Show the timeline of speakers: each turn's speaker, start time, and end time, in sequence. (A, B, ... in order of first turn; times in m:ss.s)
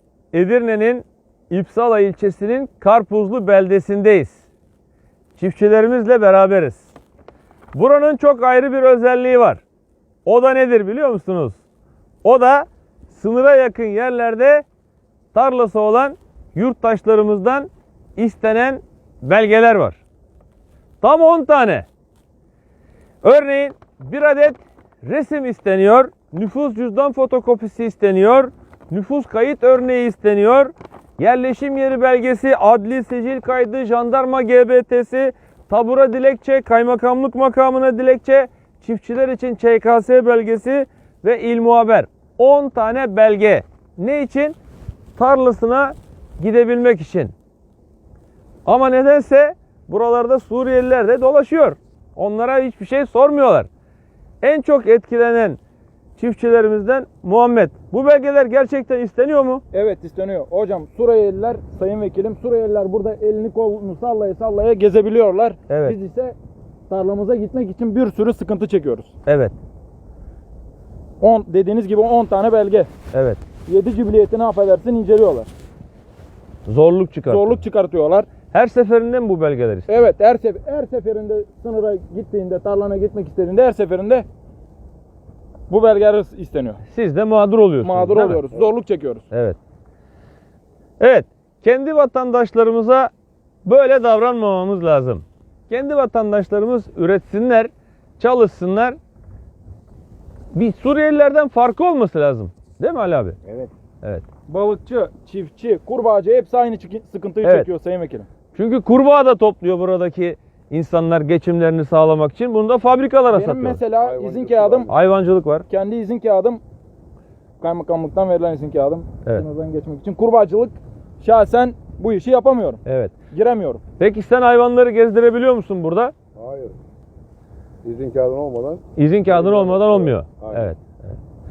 0:00.3-0:04.4 A
0:05.4-0:06.9 A
0:07.7-0:09.6 A
0:10.2-0:11.6 A
0:12.2-0:14.6 A
0:15.3-0:20.0 A
0:21.0-0:21.9 A
0:23.2-0:44.6 A
0:45.2-0:47.3 A
0:48.7-0:53.7 A
0:54.4-0:55.6 A
0:56.2-0:59.6 A
0:59.7-1:06.4 B
1:05.7-1:06.0 A
1:06.9-1:09.1 B
1:09.3-1:09.6 A
1:11.2-1:12.9 B
1:13.1-1:13.4 A
1:13.7-1:15.5 B
1:16.7-1:17.6 A
1:17.3-1:18.3 B
1:18.5-1:20.1 A
1:19.9-1:24.3 B
1:25.7-1:26.8 B
1:26.9-1:28.4 A
1:27.8-1:29.3 B
1:29.3-1:29.6 A
1:31.0-1:33.1 A
1:33.6-1:39.0 A
1:40.5-1:43.4 A
1:44.5-1:48.3 B
1:48.5-1:53.8 A
1:53.3-1:54.9 B
1:54.0-1:54.9 C
1:54.9-1:55.7 A
1:55.7-1:56.6 B
1:57.6-2:03.8 B
2:02.8-2:03.1 A
2:04.0-2:06.1 A
2:06.4-2:06.8 C
2:07.8-2:10.7 C
2:09.0-2:11.2 A